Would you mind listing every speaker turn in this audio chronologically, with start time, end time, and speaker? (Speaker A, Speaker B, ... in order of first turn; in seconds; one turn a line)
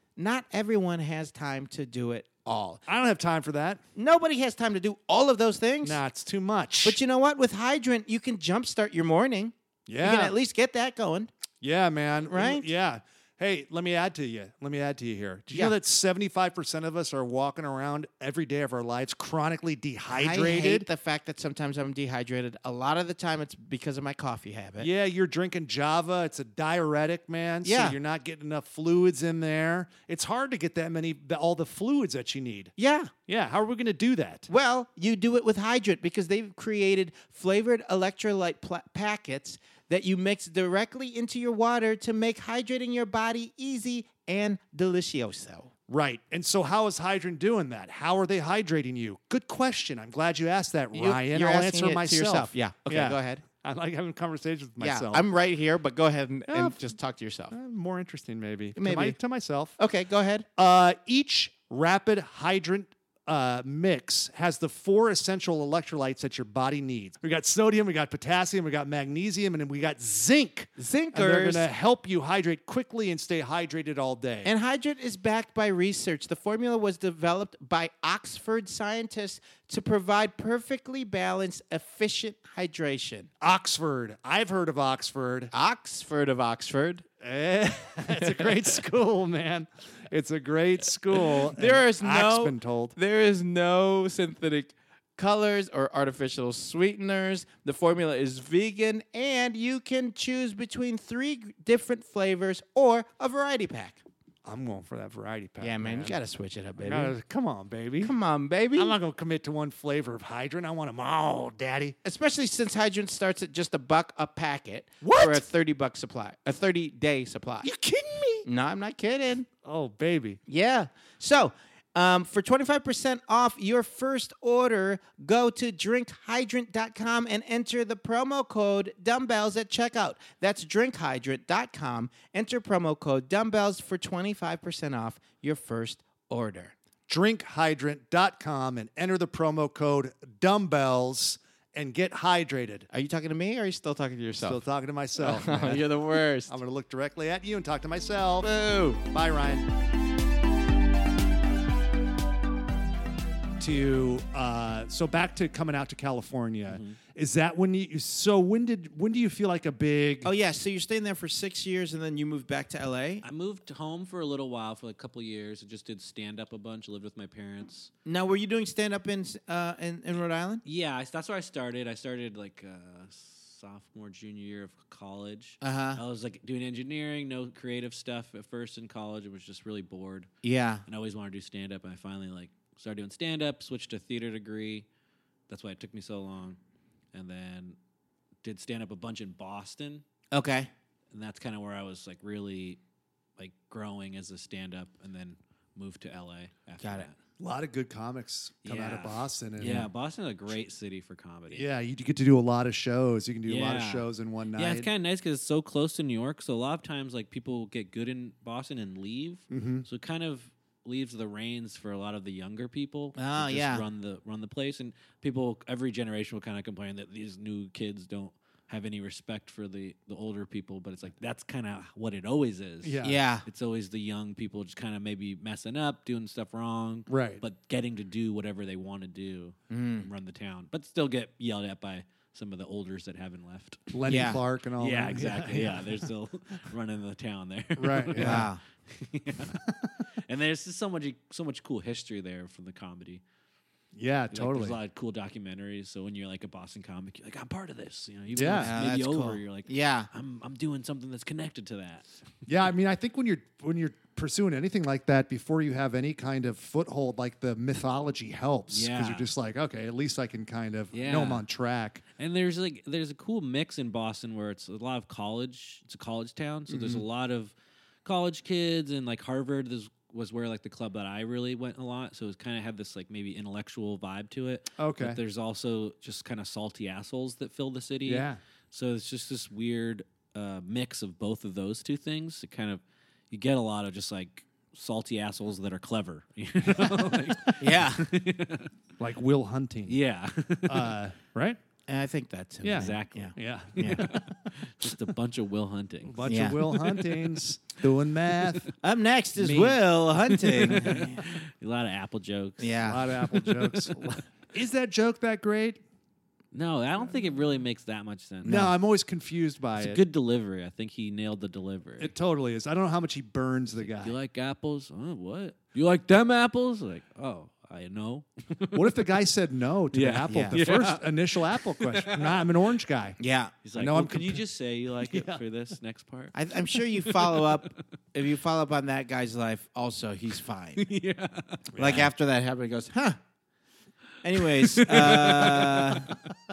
Speaker A: 0.2-2.8
Speaker B: 2.9-3.8
Speaker A: 4.0-6.0
Speaker B: 5.8-7.0
Speaker A: 6.8-11.3
Speaker B: 9.9-10.3
Speaker B: 11.6-20.9
Speaker A: 12.3-12.7
Speaker A: 20.1-24.9
Speaker B: 24.8-32.7
Speaker A: 27.6-28.0
Speaker A: 32.8-33.1
Speaker B: 33.3-34.5
Speaker A: 34.5-45.7
Speaker B: 45.9-55.2
Speaker A: 50.9-53.4
Speaker A: 54.8-57.5
Speaker B: 56.5-56.8
Speaker B: 57.5-59.8
Speaker A: 58.8-59.2
Speaker A: 59.8-60.5
Speaker B: 60.5-74.5
Speaker A: 70.8-71.7
Speaker A: 74.4-83.3
Speaker B: 83.4-85.5
Speaker A: 85.5-87.0
Speaker B: 87.2-93.0
Speaker A: 88.2-88.6
Speaker A: 91.4-104.0
Speaker B: 104.4-106.2
Speaker A: 105.6-107.1
Speaker B: 106.8-108.1
Speaker A: 108.0-108.9
Speaker B: 108.7-112.0
Speaker A: 112.0-117.7
Speaker B: 115.0-115.4
Speaker B: 117.6-118.5
Speaker A: 118.4-119.5
Speaker B: 119.6-120.4
Speaker A: 120.5-136.7
Speaker B: 137.1-142.9
Speaker A: 142.9-144.6
Speaker B: 144.4-145.9
Speaker A: 145.2-146.6
Speaker B: 146.5-148.5
Speaker A: 148.4-149.0
Speaker B: 149.0-149.7
Speaker B: 153.6-160.3
Speaker C: 156.7-157.0
Speaker A: 160.2-163.2
Speaker C: 163.2-167.9
Speaker A: 168.1-170.6
Speaker C: 170.6-180.3
Speaker A: 175.6-176.0
Speaker A: 180.4-180.8
Speaker C: 180.8-184.8
Speaker C: 185.5-186.6
Speaker C: 187.1-187.8
Speaker C: 188.4-190.0
Speaker A: 190.3-190.7
Speaker C: 191.1-192.8
Speaker C: 193.4-197.2
Speaker A: 196.8-197.1
Speaker B: 197.4-199.9
Speaker C: 198.6-201.6
Speaker B: 201.5-204.9
Speaker C: 203.4-234.2
Speaker B: 209.5-209.8
Speaker A: 213.2-213.8
Speaker B: 222.8-223.2
Speaker A: 223.0-223.4
Speaker B: 227.1-227.4
Speaker A: 229.7-230.1
Speaker B: 233.9-236.1
Speaker A: 234.1-234.4
Speaker C: 234.8-243.2
Speaker B: 237.8-238.5
Speaker A: 238.2-238.6
Speaker B: 239.5-239.9
Speaker B: 243.9-244.8
Speaker C: 244.3-252.2
Speaker B: 248.3-248.8
Speaker A: 248.6-250.1
Speaker B: 252.5-262.0
Speaker C: 258.7-259.3
Speaker C: 260.9-261.4
Speaker C: 262.2-267.5
Speaker B: 266.7-267.0
Speaker C: 268.0-288.7
Speaker B: 274.8-275.2
Speaker B: 278.1-278.4
Speaker B: 286.6-287.8
Speaker A: 287.6-288.1
Speaker B: 289.0-290.0
Speaker C: 289.9-290.9
Speaker B: 290.6-291.6
Speaker A: 291.9-294.1
Speaker B: 292.6-294.5
Speaker C: 292.7-297.2
Speaker B: 296.1-298.7
Speaker A: 296.2-296.6
Speaker A: 298.8-301.2
Speaker B: 299.4-299.8
Speaker B: 300.5-301.1
Speaker C: 300.6-304.2
Speaker A: 302.6-303.0
Speaker B: 302.8-305.8
Speaker C: 306.5-308.7
Speaker A: 308.4-308.7
Speaker B: 308.4-310.0
Speaker C: 309.8-312.1
Speaker B: 312.0-314.1
Speaker C: 313.8-319.1
Speaker B: 318.7-323.2
Speaker C: 319.9-322.5
Speaker A: 320.3-320.6
Speaker A: 323.2-323.5
Speaker C: 323.6-327.8
Speaker B: 323.8-324.4
Speaker B: 325.0-325.4
Speaker A: 326.3-330.8
Speaker C: 330.8-331.8
Speaker B: 331.7-332.1
Speaker A: 331.8-333.2
Speaker A: 334.2-336.1
Speaker C: 334.3-336.2